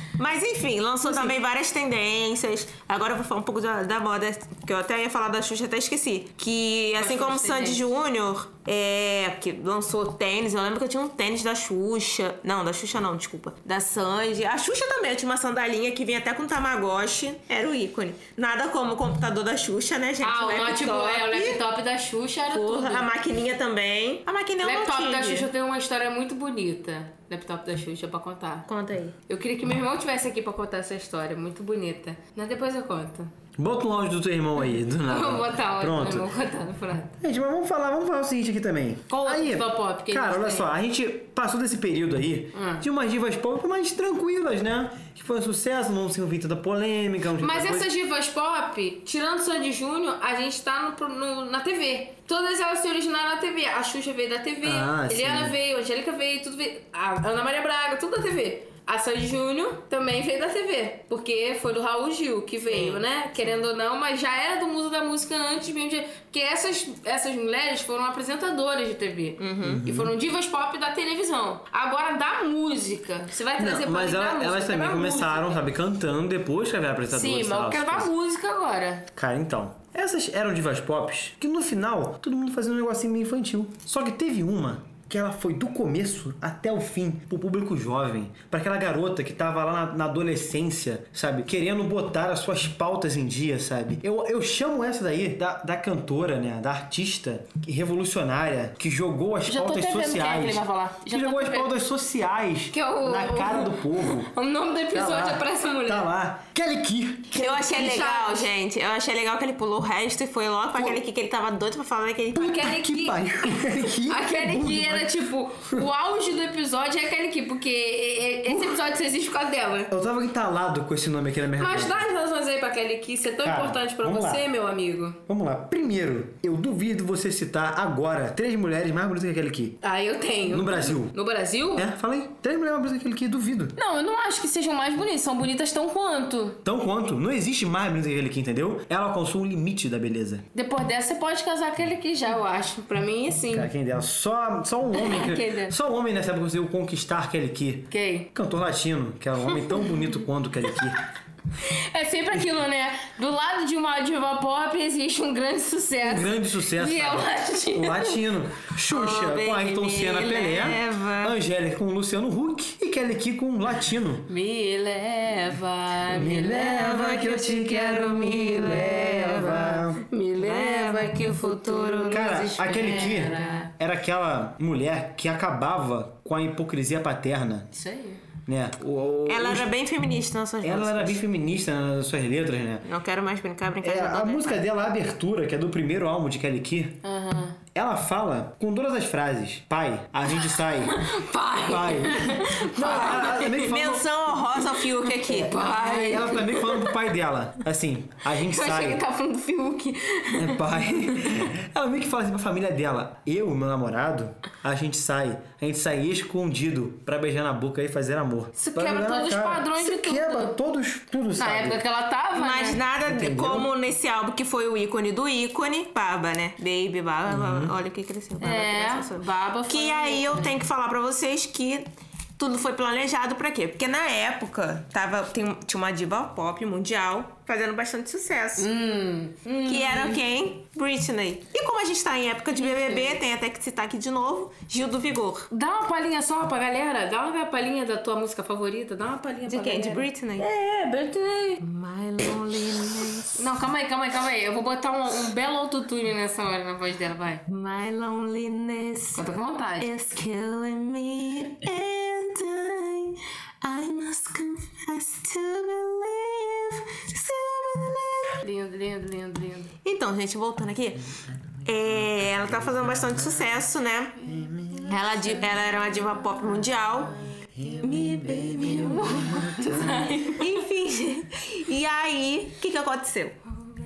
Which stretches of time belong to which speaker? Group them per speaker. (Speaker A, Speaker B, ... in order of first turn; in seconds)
Speaker A: 0.2-21.6, 22.5-25.5, 28.7-29.1, 62.7-63.0, 69.4-69.8, 107.3-112.7, 158.9-161.3, 166.3-169.8, 170.4-173.7, 179.2-181.2, 182.8-184.7, 192.8-196.5, 212.3-221.8, 222.4-228.7, 229.6-235.5, 239.5-240.5, 241.6-243.5, 247.5-249.2, 249.8-258.4, 259.8-264.2, 264.8-267.1, 267.8-269.4, 270.4-273.4
Speaker B: 1.1-1.4, 7.0-7.9, 20.2-23.1, 24.6-28.7, 29.3-33.3, 34.9-37.1, 39.1-40.7, 42.5-42.8, 47.4-75.6, 77.1-79.0, 99.5-101.7, 102.7-106.0, 107.3-108.5, 112.4-119.9, 121.6-125.2, 129.8-131.9, 133.8-136.6, 140.5-143.7, 144.9-145.7, 147.9-148.3, 149.7-149.9, 151.6-158.2, 164.3-166.6, 169.3-173.7, 177.7-178.2, 187.0-187.6, 190.5-193.7, 194.6-196.9, 198.3-201.5, 208.6-210.5, 211.4-212.8, 218.4-220.5, 228.6-230.2, 232.6-233.2, 235.5-241.6, 243.3-247.4, 249.1-249.9, 258.4-259.7, 268.6-270.5
Speaker C: 33.6-36.3, 37.2-47.9, 54.6-55.5, 69.6-70.1, 73.6-78.1, 79.1-104.3, 104.9-107.4, 112.3-115.8, 118.5-118.8, 119.9-122.0, 123.4-124.4, 125.3-129.8, 130.5-131.1, 131.8-133.7, 136.6-140.4, 143.5-151.0, 156.0-164.3, 166.1-170.0, 172.1-177.7, 178.4-179.7, 180.6-182.8, 183.8-187.0, 187.7-191.0, 191.6-194.0, 195.3-199.0, 200.3-211.8, 213.0-213.7, 217.3-217.7, 261.3-263.6, 264.2-265.3, 267.5-270.1